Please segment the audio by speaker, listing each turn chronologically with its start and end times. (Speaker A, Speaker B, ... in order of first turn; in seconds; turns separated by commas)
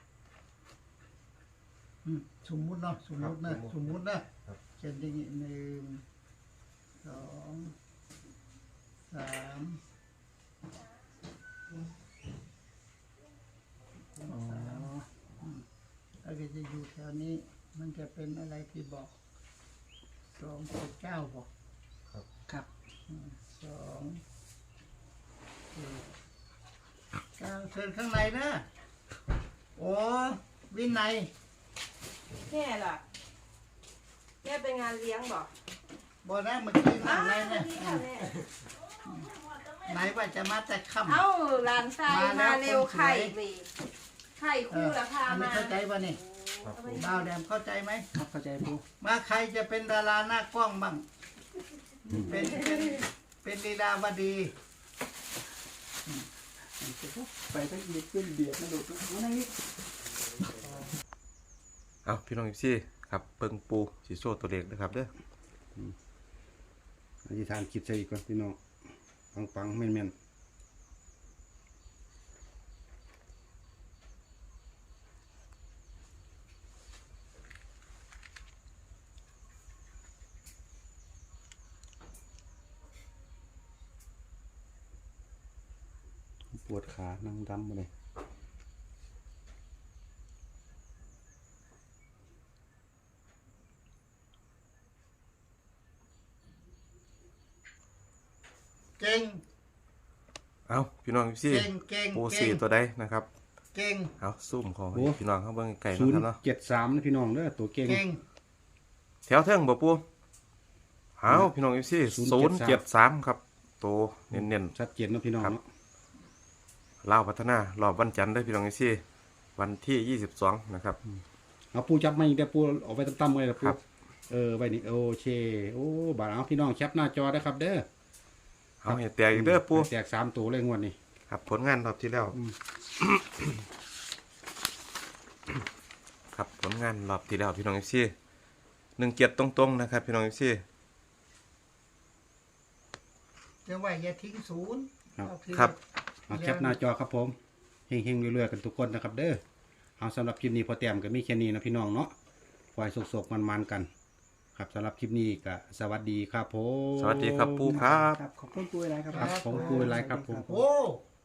Speaker A: 2.0-4.3, Speaker B: 3.2-4.6, Speaker A: 4.8-6.0, Speaker A: 7.0-7.7, Speaker A: 9.1-9.8, Speaker A: 14.2-14.9, Speaker C: 14.3-15.1, Speaker A: 16.2-19.1, Speaker A: 20.3-21.5, Speaker A: 23.1-24.2, Speaker A: 25.7-26.1, Speaker A: 27.4-28.6, Speaker A: 29.8-31.3, Speaker D: 32.5-33.0, Speaker D: 34.4-35.5, Speaker A: 36.2-38.2, Speaker D: 37.0-38.4, Speaker A: 39.9-41.2, Speaker D: 41.1-43.7, Speaker A: 42.0-43.4, Speaker D: 44.4-45.7, Speaker A: 44.7-46.2, Speaker D: 46.5-47.2, Speaker B: 46.6-47.1, Speaker A: 46.9-48.0, Speaker C: 48.1-48.8, Speaker A: 49.0-51.0, Speaker E: 52.1-52.4, Speaker A: 52.1-54.5, Speaker C: 56.8-59.5, Speaker B: 62.0-65.1, Speaker E: 67.2-68.6, Speaker E: 69.3-70.1, Speaker E: 86.5-87.9, Speaker A: 99.0-99.4, Speaker B: 100.7-103.3, Speaker A: 101.5-102.6, Speaker A: 103.7-104.1, Speaker B: 104.2-106.4, Speaker E: 104.9-105.2, Speaker E: 105.9-108.0, Speaker A: 107.8-108.2, Speaker B: 109.3-110.0, Speaker B: 111.2-114.7, Speaker E: 112.1-112.8, Speaker E: 114.3-115.6, Speaker B: 117.0-119.0, Speaker B: 119.5-121.0, Speaker E: 121.7-127.8, Speaker B: 128.8-129.9, Speaker E: 128.8-131.0, Speaker B: 131.3-132.4, Speaker B: 136.3-138.1, Speaker B: 139.0-140.6, Speaker A: 143.7-146.8, Speaker E: 146.3-147.3, Speaker E: 147.9-149.4, Speaker E: 150.0-152.1, Speaker E: 152.7-153.9, Speaker E: 154.5-158.1, Speaker B: 157.0-158.2, Speaker C: 157.7-160.5, Speaker E: 159.1-160.6, Speaker A: 159.1-161.0